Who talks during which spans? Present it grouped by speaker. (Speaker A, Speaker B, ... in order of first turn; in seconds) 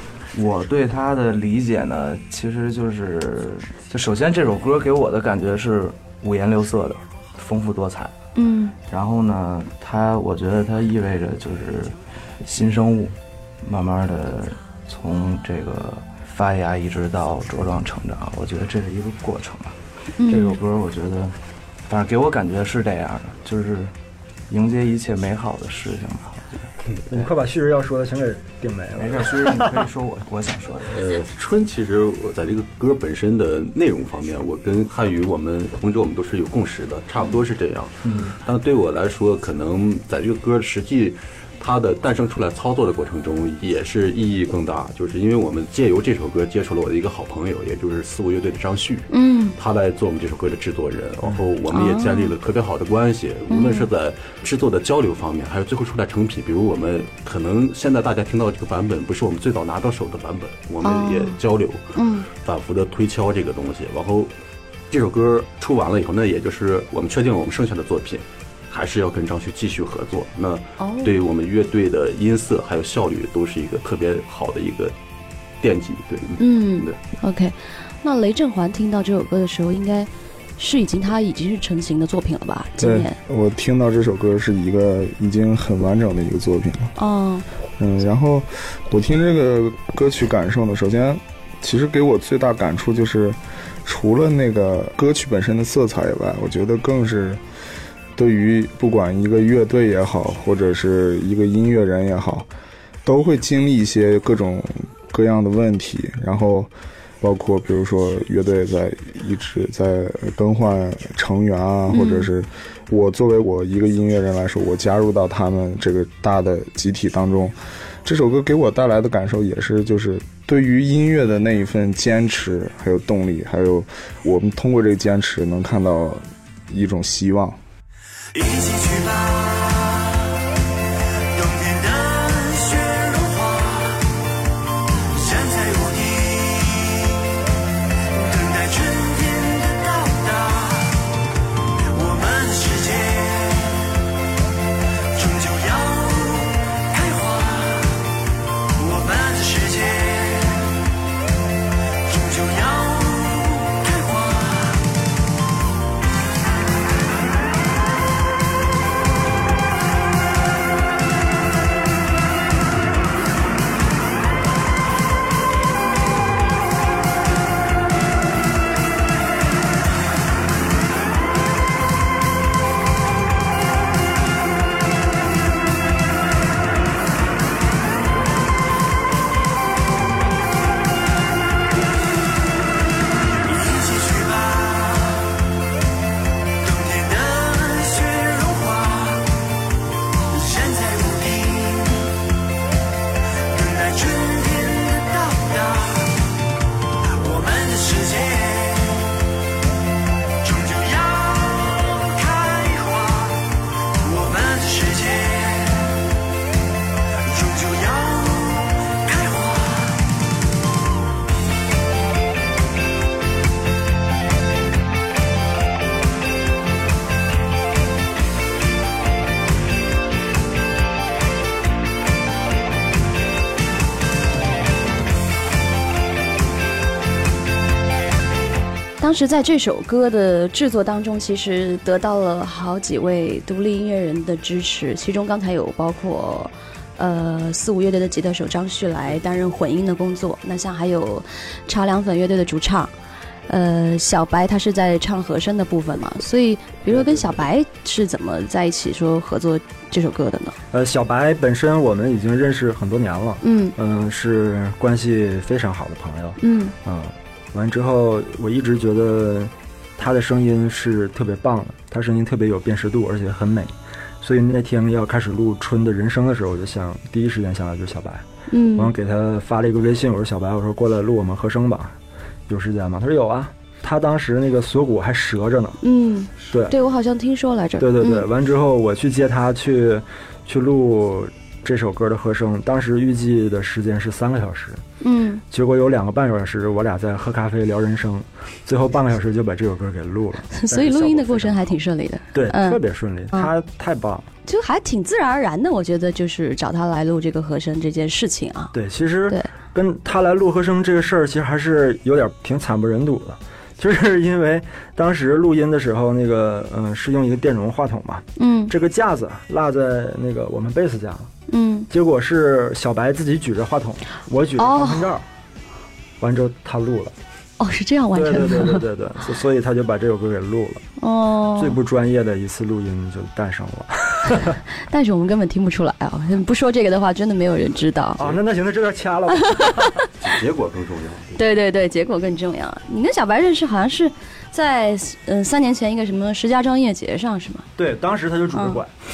Speaker A: 0.3-8.2, 8.9-21.4, 21.9-23.9, 24.5-26.6, 29.0-31.0, 38.0-38.4
Speaker B: 8.4-8.8, 20.2-20.6, 49.1-49.6, 51.7-52.3, 53.5-53.9, 60.8-61.4, 62.0-62.3, 70.8-71.2, 76.4-83.2, 87.0-87.5, 111.9-112.3, 229.0-242.9, 243.5-250.6, 253.4-253.8, 256.4-256.8, 268.5-268.9, 275.8-278.3, 285.0-285.4, 290.5-292.8, 294.5-298.7, 308.4-308.7, 311.5-311.9, 314.6-315.1, 317.6-318.9, 321.0-321.8, 324.9-328.2, 331.4-337.7, 338.5-338.8
Speaker C: 27.1-29.8, 246.9-247.4, 250.7-272.0, 272.5-275.8, 276.4-276.8, 277.8-284.8, 285.5-291.8, 292.3-294.3, 298.7-311.3, 311.9-315.2, 316.2-317.1, 318.1-320.9, 321.6-324.6, 328.2-330.1, 337.8-338.9
Speaker D: 30.9-64.3, 64.9-75.0, 75.6-77.0, 330.2-331.4
Speaker E: 82.8-87.0, 87.8-97.4, 98.2-102.5, 103.0-127.6
Speaker F: 128.4-130.1, 131.4-134.0, 135.2-137.1, 138.2-140.9, 142.0-143.9, 145.2-147.9, 148.8-150.5, 152.1-154.7, 183.5-185.2, 186.7-189.2, 190.3-192.1, 193.5-196.1, 197.2-199.1, 200.4-203.4, 204.1-205.4, 207.3-208.2, 208.9-209.8